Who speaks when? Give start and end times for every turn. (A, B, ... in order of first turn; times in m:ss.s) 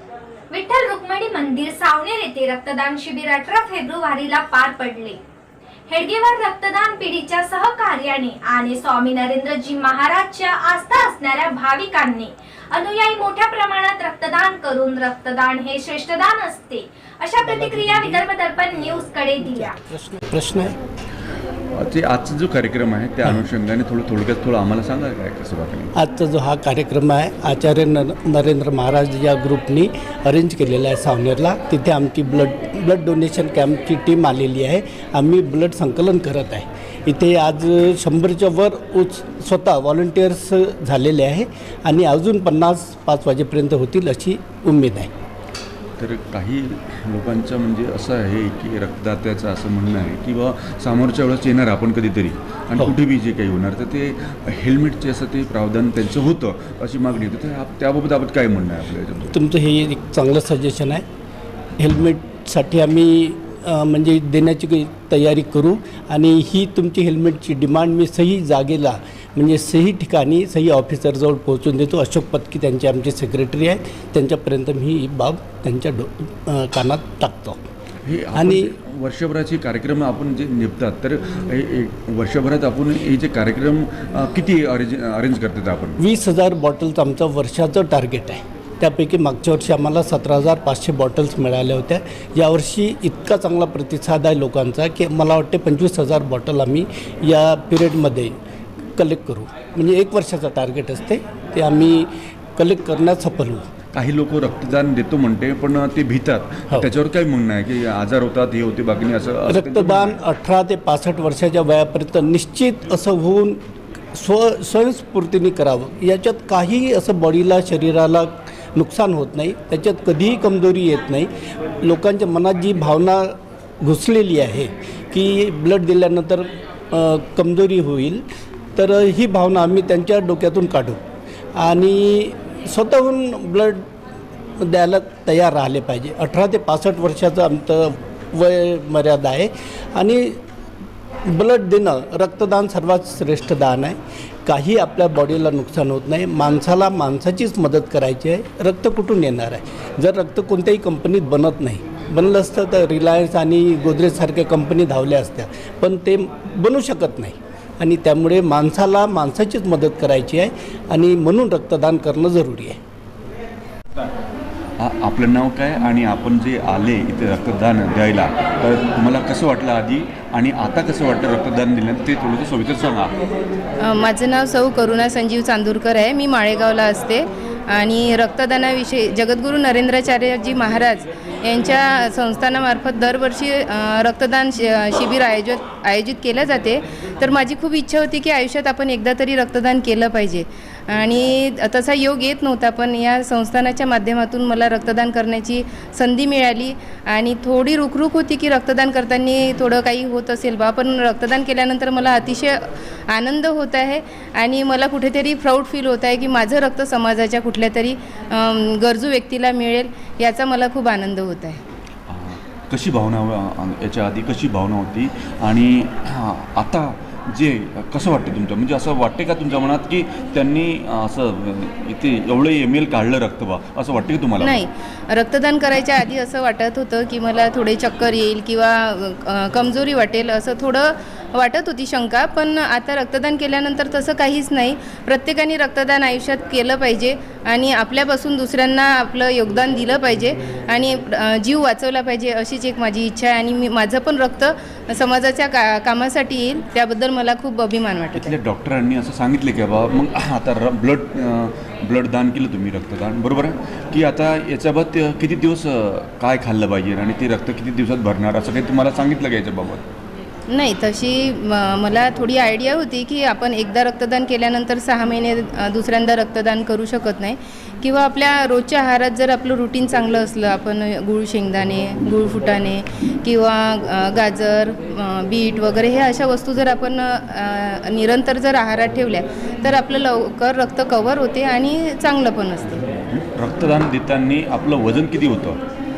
0:00.5-0:05.2 A
0:05.9-0:19.8 A
0:17.4-0:18.3 B
0:19.4-0:20.8 B
0:21.8-0:25.9 C
0:26.0-0:45.1 B
0:46.0-0:59.4 C
0:59.3-1:01.0 B
1:01.8-1:17.6 B
1:18.0-1:26.0 C
1:18.4-1:18.7 B
1:26.0-1:38.4 B
1:39.0-1:43.7 B
1:43.9-1:50.2 C
1:49.5-1:53.6 B
1:54.1-2:01.3 B
2:01.8-2:08.2 B
2:08.8-2:11.0 B
2:11.6-2:13.8 B
2:14.6-2:20.4 B
2:21.3-2:42.8 B
2:44.8-2:53.2 C
2:53.8-3:31.6 D
3:32.1-3:44.6 C
3:44.4-4:08.4 D
4:08.2-4:19.8 C
4:20.5-4:42.8 D
4:43.1-4:45.6 C